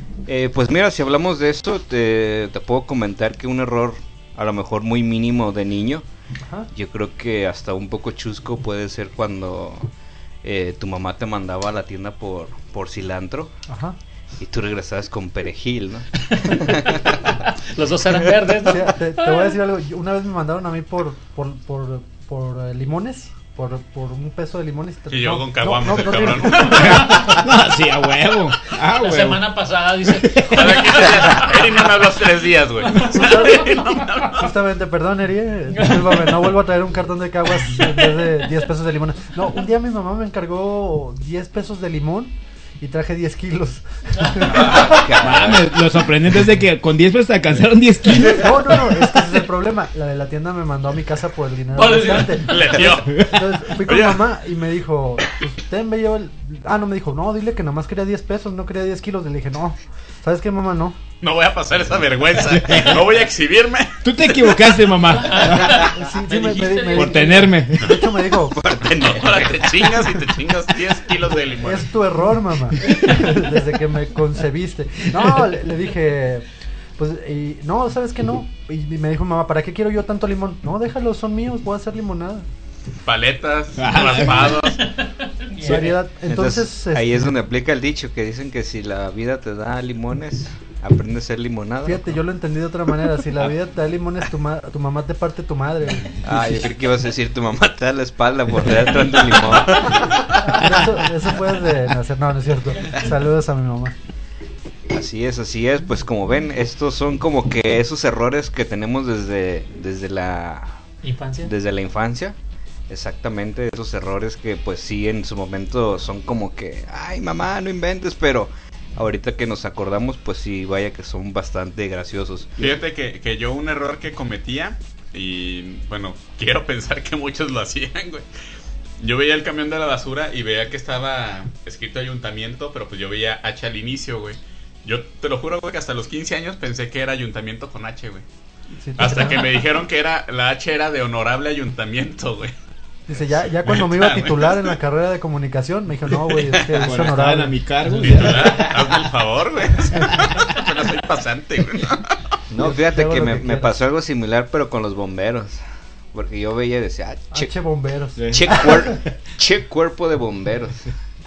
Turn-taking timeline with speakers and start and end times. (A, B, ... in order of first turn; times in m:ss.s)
0:00.3-0:06.1 A
0:06.7-0:09.9 A
0:10.4-0:13.5 A
0:13.7-0:14.0 B
0:14.4-0:17.2 A
0:16.4-0:17.0 C
0:17.6-0:19.6 C
0:18.6-0:27.3 B
0:25.1-0:27.2 D
0:26.6-0:29.5 E
0:28.9-0:31.8 C
0:30.0-0:30.8 E
0:30.4-0:34.5 D
0:33.0-0:33.6 C
0:33.1-0:33.7 B
0:34.3-0:45.1 B
0:35.7-0:36.5 C
0:37.7-0:38.3 C
0:44.4-0:45.8 A
0:45.0-0:49.3 E
0:48.2-1:01.0 B
0:51.8-0:52.6 C
0:52.4-0:54.3 D
0:53.1-0:53.5 E
1:01.2-1:04.5 D
1:02.4-1:03.2 E
1:04.0-1:05.9 E
1:05.1-1:07.5 C
1:05.8-1:08.6 B
1:06.9-1:08.0 E
1:08.5-1:10.2 A
1:08.8-1:11.9 D
1:11.6-1:16.5 B
1:17.0-1:22.5 B
1:23.0-1:24.8 D
1:23.8-1:24.6 E
1:24.3-1:26.0 C
1:25.6-1:27.3 B
1:26.3-1:32.2 A
1:31.8-1:36.2 B
1:36.2-1:40.2 A
1:40.4-1:44.0 B
1:44.9-1:50.8 A
1:51.0-1:51.5 C
1:51.4-1:52.4 A
1:52.9-2:02.7 A
2:02.6-2:08.3 D
2:09.0-2:18.2 D
2:18.8-2:19.5 B
2:19.0-2:22.5 D
2:23.1-2:27.6 B
2:23.6-2:24.8 D
2:26.8-2:29.0 E
2:28.0-2:32.2 D
2:29.9-2:30.6 E
2:32.5-2:35.6 A
2:32.6-2:33.7 B
2:36.1-2:37.5 A
2:37.3-2:38.7 B
2:38.2-2:38.8 E
2:38.3-2:40.8 A